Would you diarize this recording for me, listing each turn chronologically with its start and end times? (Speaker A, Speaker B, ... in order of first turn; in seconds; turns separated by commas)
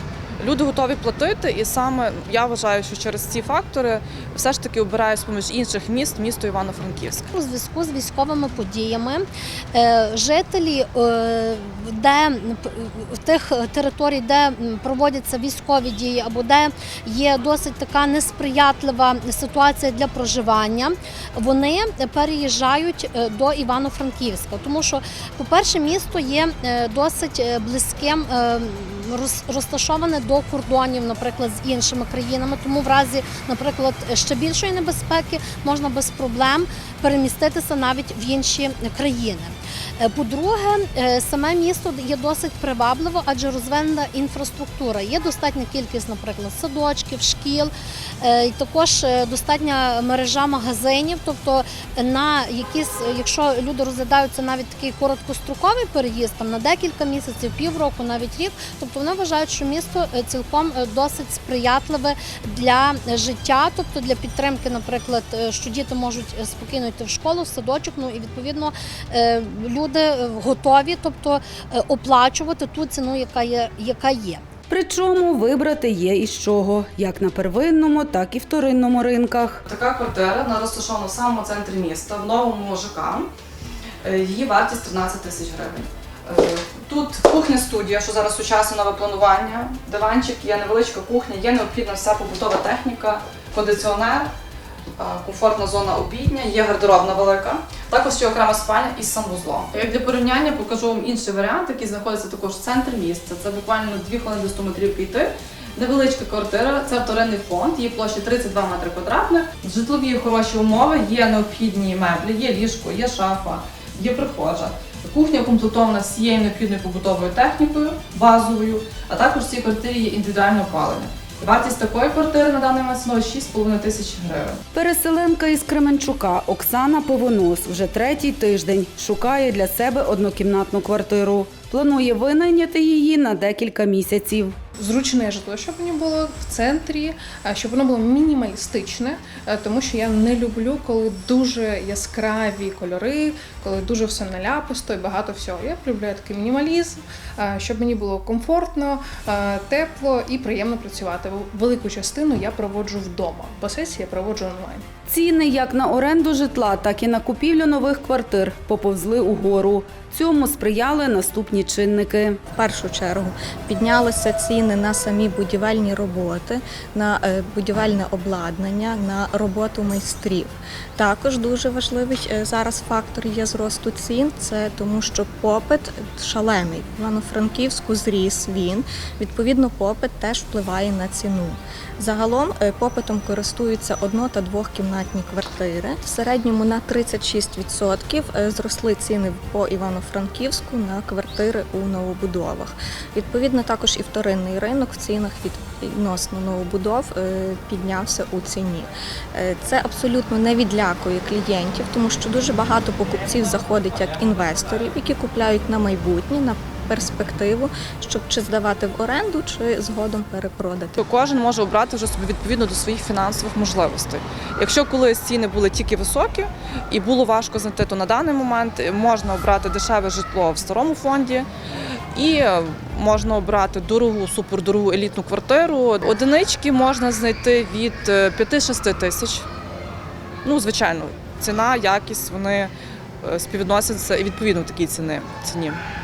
Speaker A: 0.4-7.2, Speaker B: 7.3-74.4, Speaker C: 74.7-79.6, Speaker A: 79.7-83.3, Speaker A: 84.0-94.3, Speaker A: 95.0-124.6, Speaker C: 124.7-134.6, Speaker D: 134.8-154.8, Speaker C: 155.1-162.4, Speaker E: 162.6-211.0, Speaker A: 211.0-221.5, Speaker A: 222.1-229.5, Speaker A: 230.4-232.7, Speaker A: 233.2-235.8